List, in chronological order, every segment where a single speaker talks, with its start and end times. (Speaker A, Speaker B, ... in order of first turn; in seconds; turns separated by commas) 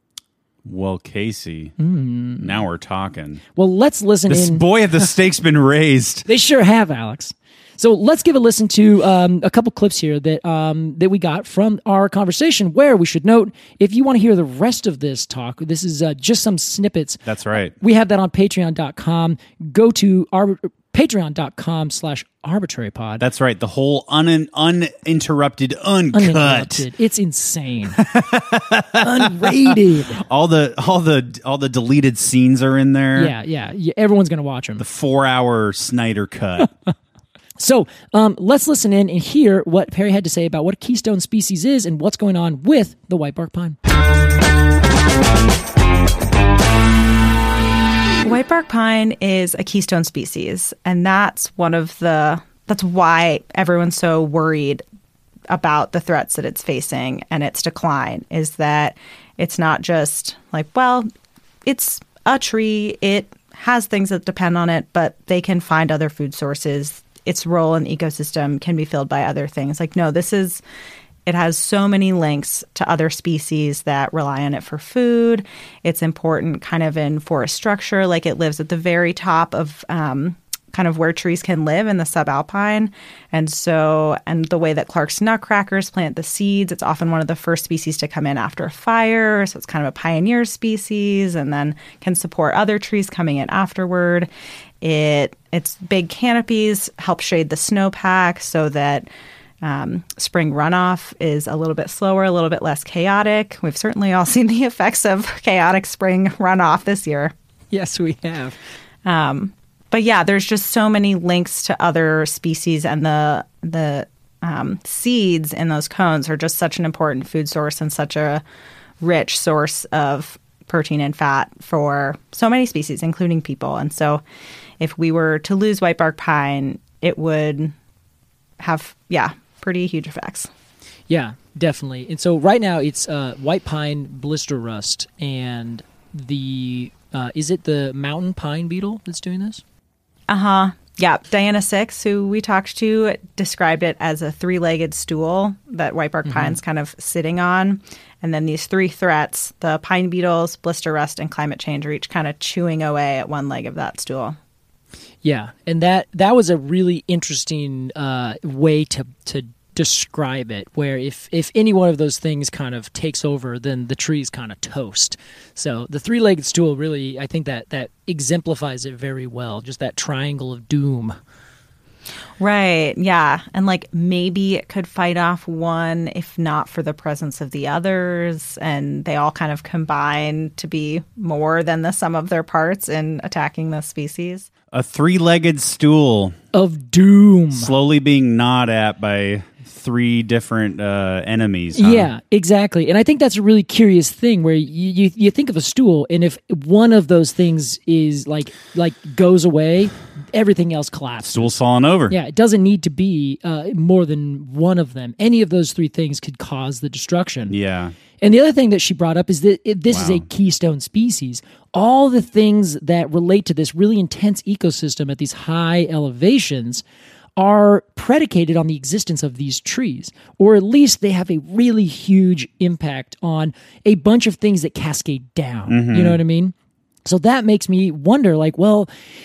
Speaker A: 0.6-1.7, Speaker B: 1.8-2.6, Speaker A: 2.4-3.4, Speaker B: 3.5-4.7, Speaker A: 4.3-6.2, Speaker B: 6.2-17.2, Speaker A: 17.2-17.7, Speaker B: 17.8-23.2, Speaker A: 23.2-26.9, Speaker B: 26.1-28.0, Speaker A: 27.9-33.3, Speaker B: 29.0-30.2, Speaker B: 33.1-34.8, Speaker A: 34.8-36.7, Speaker B: 37.6-43.8, Speaker C: 48.2-54.8, Speaker C: 55.5-61.1, Speaker C: 61.6-70.6, Speaker C: 71.2-94.3, Speaker C: 94.8-99.1, Speaker C: 99.6-107.3, Speaker B: 107.7-108.5, Speaker C: 109.0-118.4, Speaker C: 119.0-124.2, Speaker C: 124.8-127.7, Speaker C: 128.6-130.5, Speaker B: 131.1-139.6, Speaker C: 140.3-154.4, Speaker B: 146.2-146.6, Speaker B: 155.2-171.2, Speaker C: 172.4-184.5, Speaker A: 184.7-186.3, Speaker B: 186.5-187.7, Speaker A: 187.5-192.1, Speaker B: 191.7-201.6, Speaker A: 201.2-202.2, Speaker B: 202.1-207.5, Speaker A: 207.5-207.9, Speaker B: 208.2-216.8, Speaker A: 209.9-210.2, Speaker B: 217.4-226.5, Speaker A: 225.7-226.2, Speaker B: 227.0-228.9